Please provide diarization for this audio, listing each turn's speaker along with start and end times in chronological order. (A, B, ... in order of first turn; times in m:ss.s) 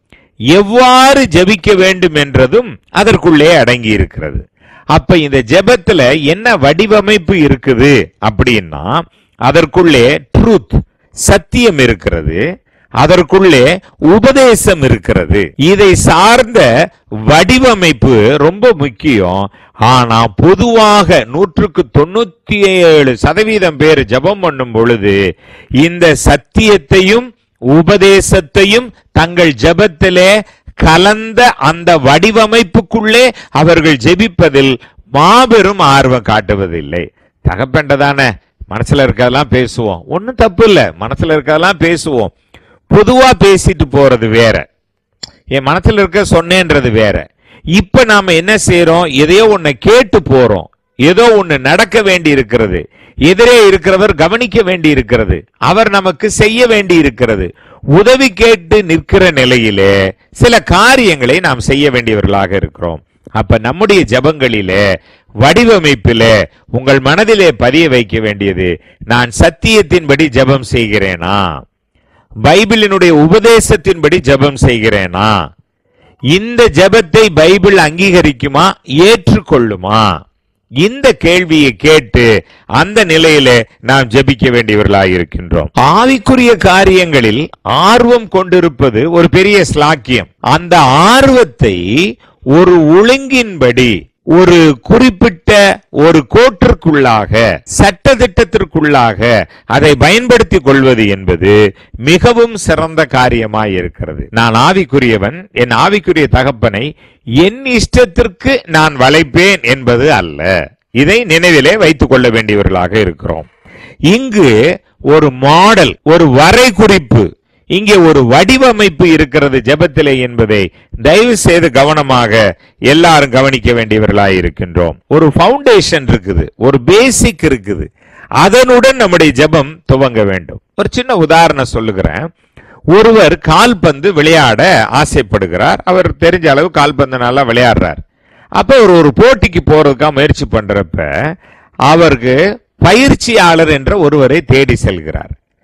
0:00.5-0:04.4 A
0:04.9-0:10.8 A
0:11.3-0:12.4 A
0:13.0-0:16.6 A
0:17.3-0:25.2 A
0:25.8-0:30.3 A
0:30.8-0:42.3 A
0:42.9-0:44.6 A
0:45.6-0:47.2 A
0:47.8-1:04.8 A
1:05.4-1:11.4 A
1:12.4-1:15.3 A
1:16.3-1:20.0 A
1:20.8-1:22.2 A
1:22.8-1:31.8 A
1:32.6-1:41.5 A
1:42.0-1:46.9 A
1:47.4-1:50.5 A
1:51.0-1:53.5 A
1:54.1-1:54.5 A
1:55.1-2:02.4 A
2:02.9-2:07.9 A
2:08.4-2:12.2 A
2:12.9-2:18.0 A
2:18.6-2:21.0 A
2:21.9-2:25.3 A